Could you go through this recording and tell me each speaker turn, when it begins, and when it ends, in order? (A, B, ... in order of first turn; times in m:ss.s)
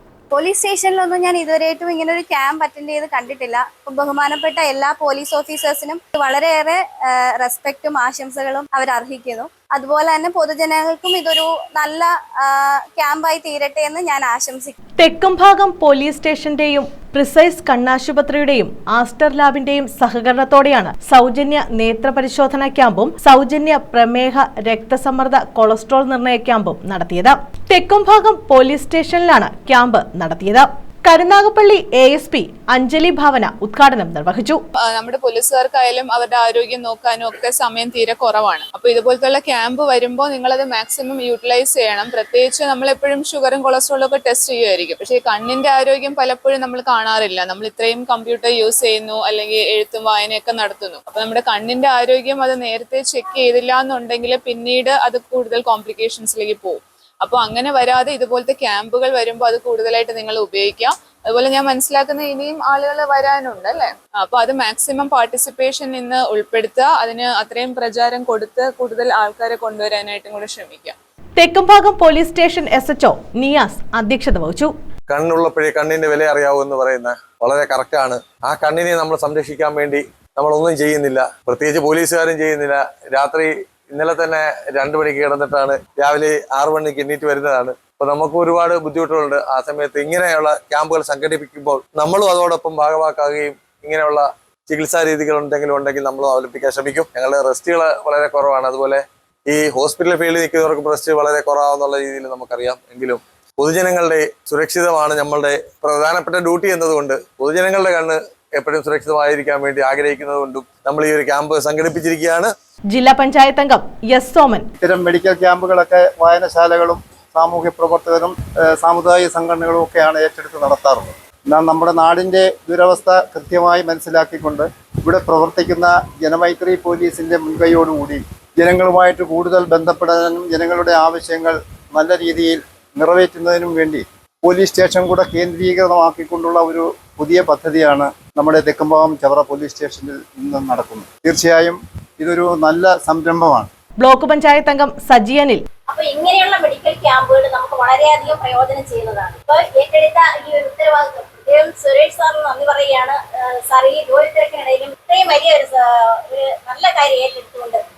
0:00.3-0:14.7 A
0:15.0-0:34.6 B
0:34.8-1:11.0 C
1:11.4-1:14.7 B
1:15.1-1:52.5 D
1:52.9-1:54.7 B
1:54.8-2:23.7 E
2:24.0-2:25.6 B
2:25.9-2:37.8 F